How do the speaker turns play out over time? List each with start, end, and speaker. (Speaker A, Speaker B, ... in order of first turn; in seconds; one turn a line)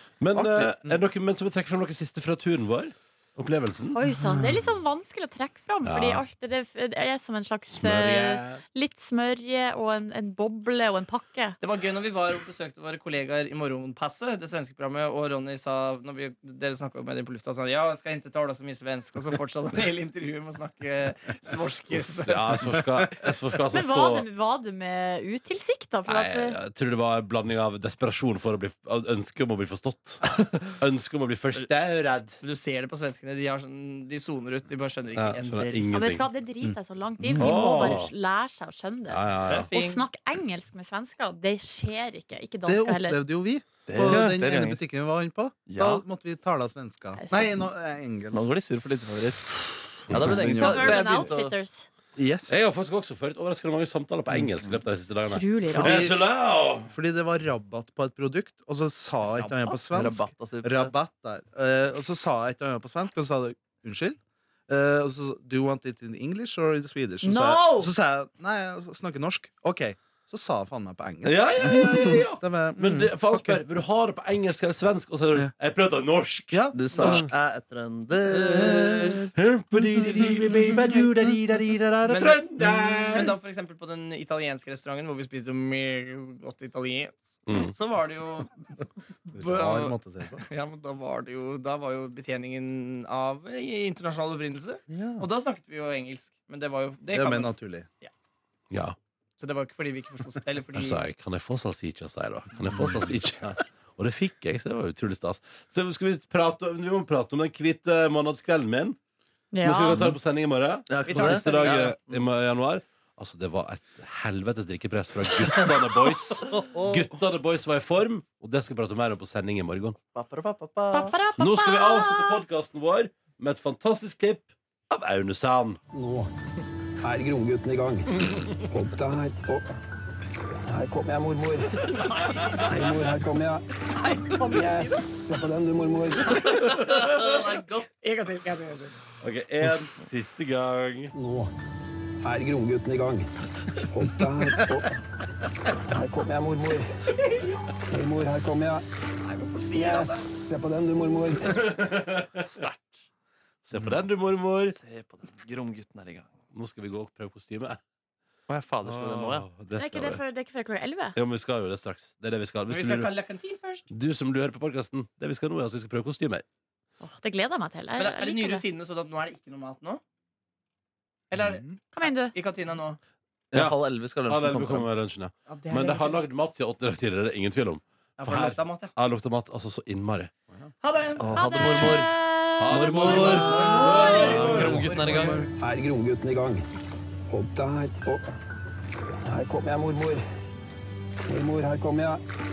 Speaker A: 0.2-4.0
Speaker B: 0.3-0.9
Speaker C: 3.9-11.6
Speaker B: 4.2-4.7
Speaker A: 5.8-6.3
Speaker A: 7.7-8.6
Speaker D: 11.6-22.5
Speaker A: 22.2-24.3
Speaker C: 23.7-26.6
Speaker A: 26.1-32.4
Speaker D: 32.4-35.9
Speaker A: 35.1-36.3
Speaker C: 35.9-43.2
Speaker E: 37.2-37.9
Speaker A: 37.4-38.1
Speaker A: 39.1-39.7
Speaker D: 39.4-40.0
Speaker B: 42.6-48.5
Speaker E: 43.9-44.8
Speaker A: 44.0-44.4
Speaker E: 45.7-46.0
Speaker C: 47.1-47.5
Speaker E: 48.3-51.5
Speaker A: 50.1-50.5
Speaker B: 50.1-51.3
Speaker C: 50.6-51.9
Speaker B: 52.1-52.6
Speaker A: 52.5-56.9
Speaker C: 55.2-56.1
Speaker B: 55.8-56.2
Speaker B: 56.9-64.2
Speaker E: 59.4-60.9
Speaker B: 64.7-73.6
Speaker C: 67.2-67.9
Speaker A: 71.2-77.3
Speaker B: 76.5-77.3
Speaker E: 76.7-79.3
Speaker A: 78.3-83.4
Speaker B: 78.6-79.2
Speaker D: 82.1-88.5
Speaker A: 87.5-87.7
Speaker B: 89.3-90.4
Speaker D: 89.4-98.1
Speaker B: 94.9-95.3
Speaker B: 97.1-97.9
Speaker A: 98.7-99.0
Speaker D: 99.4-101.0
Speaker A: 100.7-109.0
Speaker B: 102.7-103.6
Speaker C: 109.5-110.1
Speaker A: 109.6-120.0
Speaker E: 110.9-112.2
Speaker D: 111.1-111.8
Speaker B: 116.5-117.0
Speaker E: 120.2-121.0
Speaker C: 120.9-122.4
Speaker A: 121.4-125.8
Speaker F: 125.9-126.3
Speaker F: 127.0-129.7
Speaker F: 130.4-132.0
Speaker D: 132.0-132.8
Speaker F: 132.6-136.6
Speaker D: 133.9-135.1
Speaker E: 136.3-137.9
Speaker D: 138.0-139.0
Speaker A: 139.2-141.1
Speaker F: 141.1-141.5
Speaker F: 142.2-145.0
Speaker F: 145.7-146.8
Speaker F: 147.8-149.0
Speaker D: 149.3-150.3
Speaker F: 149.7-151.7
Speaker A: 151.5-152.5
Speaker E: 152.5-152.9
Speaker A: 153.7-154.8
Speaker E: 154.7-156.3
Speaker A: 156.5-157.8
Speaker E: 158.5-159.5
Speaker A: 158.8-160.2
Speaker C: 159.8-161.2
Speaker A: 161.1-163.1
Speaker D: 162.7-163.9
Speaker A: 163.9-166.4
Speaker C: 167.0-168.7
Speaker D: 168.0-170.0
Speaker D: 171.3-173.0
Speaker C: 171.9-172.3
Speaker E: 173.5-174.9
Speaker A: 173.5-180.3
Speaker D: 175.5-176.2
Speaker D: 178.2-178.9
Speaker D: 180.8-181.3
Speaker E: 181.2-182.1
Speaker C: 181.3-182.8
Speaker A: 181.5-182.0
Speaker A: 182.6-184.8
Speaker E: 182.7-185.4
Speaker D: 183.5-185.3
Speaker C: 183.9-184.4
Speaker F: 184.5-186.7
Speaker B: 185.1-185.5
Speaker F: 187.3-188.2
Speaker F: 189.2-190.2
Speaker F: 191.3-192.2